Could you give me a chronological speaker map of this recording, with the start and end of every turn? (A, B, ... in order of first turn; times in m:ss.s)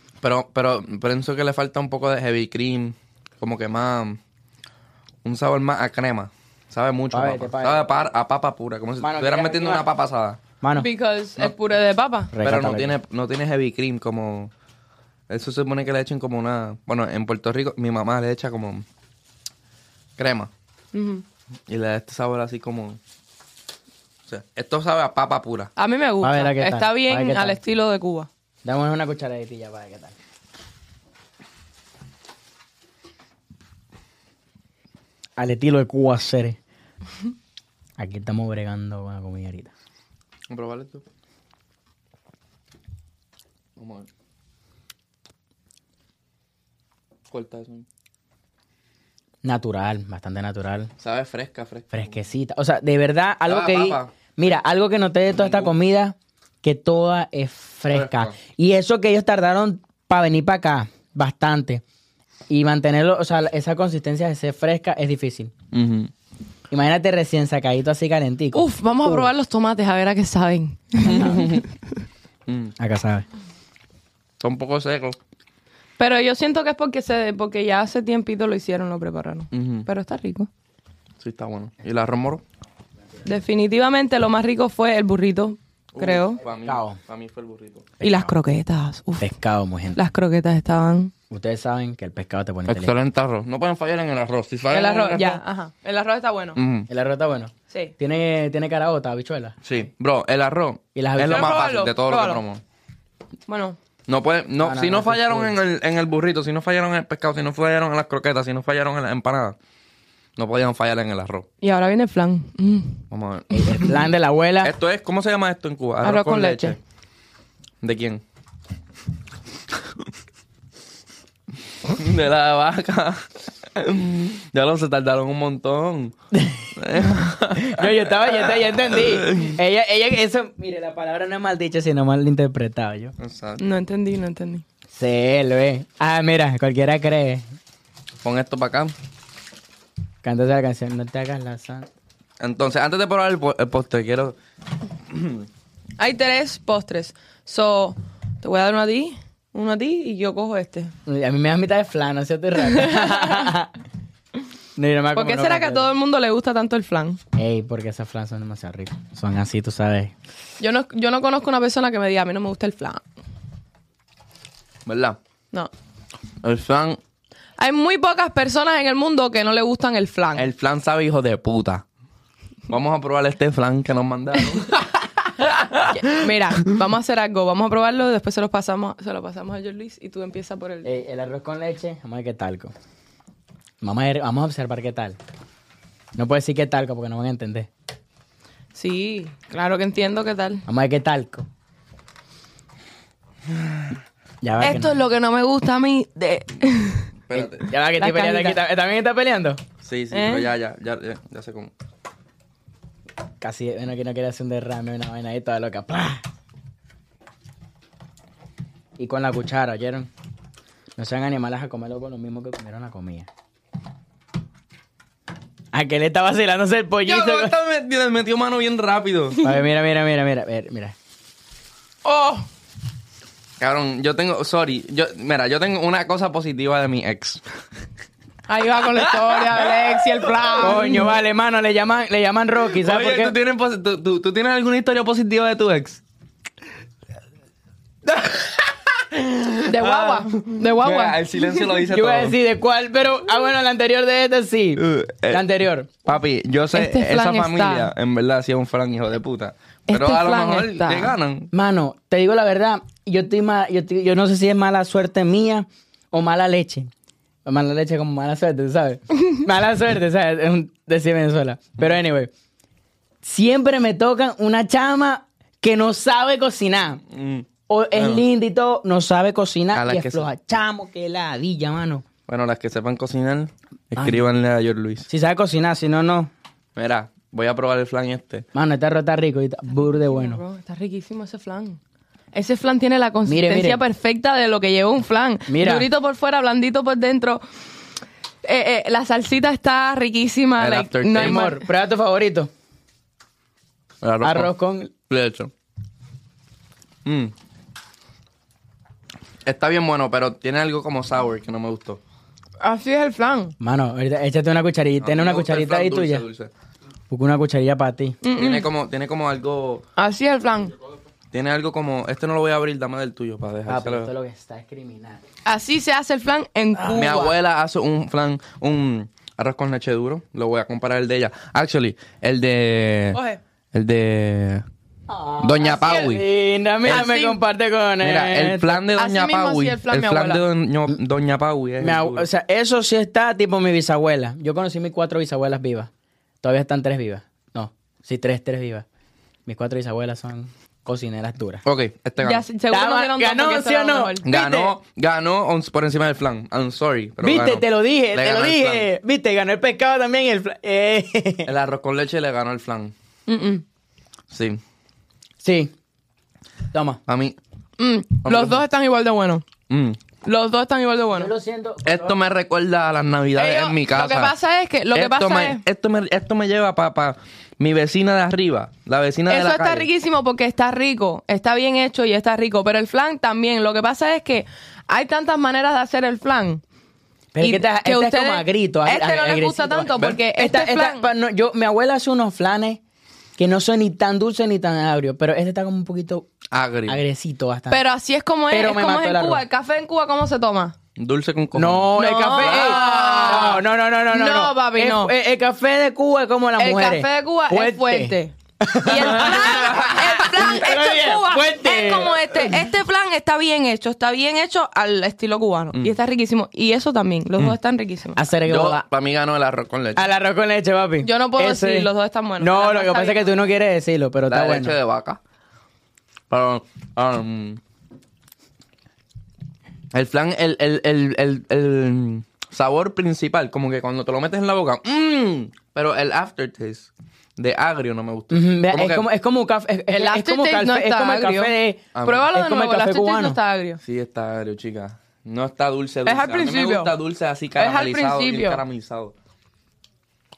0:00.2-0:04.2 A
0:05.2-0:10.4 A
0:07.1-0:07.9 B
0:09.0-0:09.8 B
0:10.6-0:10.9 B
0:10.8-0:12.3 C
0:12.3-0:13.0 B
0:12.4-0:14.5 A
0:15.3-0:18.8 A
0:20.2-0:20.5 A
0:20.9-0:21.2 C
0:21.7-0:23.0 A
0:24.3-0:25.7 A
0:25.8-0:28.3 C
0:26.2-0:27.6 B
0:28.6-0:30.2 B
0:35.4-0:36.6 B
0:38.0-0:39.7 B
0:40.5-0:41.0 A
0:43.8-0:44.1 A
0:47.3-0:47.8 A
0:49.4-0:50.9 B
0:51.0-0:52.1 A
0:51.9-1:01.8 B
0:53.5-0:54.1 A
0:55.4-0:55.7 A
0:57.9-0:58.4 A
1:02.5-1:05.5 B
1:05.7-1:06.1 A
1:06.7-1:09.3 B
1:08.5-1:11.7 C
1:11.0-1:11.6 A
1:11.1-1:11.4 B
1:12.5-1:12.7 A
1:12.8-1:13.2 B
1:14.4-1:15.2 A
1:16.0-1:20.5 C
1:19.5-1:19.9 A
1:21.2-1:22.4 A
1:23.2-1:26.4 C
1:25.9-1:27.9 A
1:26.6-1:27.0 B
1:28.0-1:28.3 B
1:28.0-1:29.3 C
1:29.2-1:30.0 B
1:29.9-1:31.1 C
1:31.3-1:32.9 B
1:32.7-1:35.4 A
1:34.7-1:36.6 C
1:36.6-1:36.9 A
1:36.9-1:39.6 B
1:39.6-1:42.6 A
1:41.0-1:41.6 B
1:41.3-1:42.4 C
1:43.5-1:43.8 C
1:44.1-1:49.6 A
1:44.6-1:45.6 B
1:50.4-1:51.5 A
1:51.6-1:53.0 C
1:53.1-1:54.0 A
1:53.5-1:54.7 B
1:54.6-1:56.8 A
1:56.0-1:56.8 C
1:57.8-1:58.2 A
2:01.9-2:06.2 A
2:06.3-2:06.7 B
2:06.8-2:09.6 A
2:07.6-2:13.2 B
2:13.2-2:13.6 A
2:13.6-2:14.6 C
2:14.9-2:17.4 B
2:18.2-2:18.9 A
2:20.2-2:21.9 B
2:22.4-2:24.4 A
2:25.1-2:25.5 A
2:26.0-2:30.9 C
2:31.1-2:33.7 B
2:32.6-2:33.5 C
2:34.8-2:35.9 B
2:35.1-2:37.2 C
2:37.4-2:40.1 B
2:40.6-2:43.0 C
2:44.9-2:45.2 A
2:46.4-2:47.0 A
2:47.6-2:50.5 C
2:50.4-2:51.8 A
2:52.7-2:54.8 A
2:55.4-2:55.9 A
2:55.8-3:00.9 C
3:00.8-3:02.7 B
3:03.8-3:05.2 B
3:06.2-3:07.7 B
3:08.8-3:10.6 C
3:10.7-3:11.5 B
3:14.4-3:15.0 B
3:14.6-3:17.1 C
3:17.3-3:17.7 A
3:17.3-3:19.6 B
3:17.9-3:18.6 C
3:19.8-3:21.7 A
3:20.1-3:20.5 C
3:23.4-3:26.2 B
3:29.0-3:30.1 B
3:31.0-3:33.3 B
3:35.7-3:37.6 B
3:37.0-3:39.4 A
3:39.4-3:41.0 B
3:42.0-3:42.5 C
3:43.6-3:47.4 A
3:48.5-3:51.1 C
3:49.0-3:49.7 A
3:50.6-3:53.4 B
3:52.7-3:56.0 A
3:58.1-4:02.4 A
3:59.7-4:01.6 C
4:01.9-4:05.9 B
4:04.8-4:05.5 A
4:06.0-4:11.5 A
4:06.7-4:07.9 C
4:09.9-4:11.1 C
4:11.5-4:16.9 B
4:17.4-4:22.3 B
4:23.2-4:27.0 B
4:27.1-4:28.2 A
4:27.7-4:32.0 B
4:29.7-4:30.3 A
4:32.3-4:35.1 A
4:34.0-4:34.2 B
4:35.1-4:36.3 B
4:36.8-4:38.4 A
4:38.5-4:40.4 B
4:39.9-4:41.8 C
4:42.3-4:47.4 C
4:43.3-4:43.8 B
4:45.5-4:45.9 B
4:48.4-4:51.6 C
4:50.6-4:51.5 A
4:51.2-4:52.5 B
4:54.0-4:54.5 A
4:54.2-4:54.9 B
4:55.1-4:55.5 A
4:57.0-4:57.3 A
4:59.4-5:02.0 A
5:02.6-5:03.6 C
5:03.6-5:06.2 B
5:05.0-5:06.5 A
5:07.1-5:08.2 B
5:08.2-5:08.7 C
5:08.3-5:09.8 A
5:10.0-5:10.7 C
5:11.3-5:14.1 A
5:13.7-5:15.2 B
5:15.5-5:17.3 C
5:16.8-5:23.2 A
5:23.1-5:23.4 C
5:23.7-5:24.6 A
5:25.1-5:28.8 B
5:25.4-5:26.2 A
5:26.9-5:27.4 C
5:28.0-5:32.3 A
5:29.0-5:30.4 C
5:31.8-5:35.9 B
5:36.4-5:38.9 B
5:39.5-5:41.6 B
5:41.6-5:42.4 A
5:42.2-5:44.3 C
5:42.7-5:44.7 B
5:44.2-5:48.9 A
5:47.2-5:51.5 B
5:51.5-5:52.9 A
5:53.3-5:53.6 C
5:54.3-5:54.6 A
5:55.4-5:55.7 B
5:56.7-5:57.0 B
5:57.1-5:57.4 A
5:57.8-5:59.4 C
5:58.2-5:58.6 A
5:59.7-6:00.0 A
6:00.2-6:01.3 C
6:01.2-6:02.2 B
6:01.8-6:04.3 A
6:03.4-6:05.6 C
6:04.9-6:09.9 A
6:09.3-6:16.6 C
6:17.3-6:22.8 B
6:17.4-6:21.1 C
6:23.4-6:26.3 B
6:26.5-6:27.0 A
6:26.9-6:27.8 B
6:27.7-6:30.8 C
6:28.5-6:29.4 B
6:31.0-6:33.5 A
6:31.5-6:42.6 B
6:32.0-6:35.1 C
6:36.6-6:48.2 C
6:39.0-6:40.3 A
6:48.2-6:48.8 B
6:48.4-6:50.0 A
6:50.0-6:54.8 B
6:51.0-6:53.3 C
6:54.3-6:55.2 A
6:56.3-6:57.6 A
6:59.9-7:09.0 A
7:08.3-7:13.4 B
7:09.9-7:13.8 C
7:12.0-7:12.3 A
7:13.8-7:19.1 A
7:16.1-7:16.9 C
7:17.6-7:18.6 C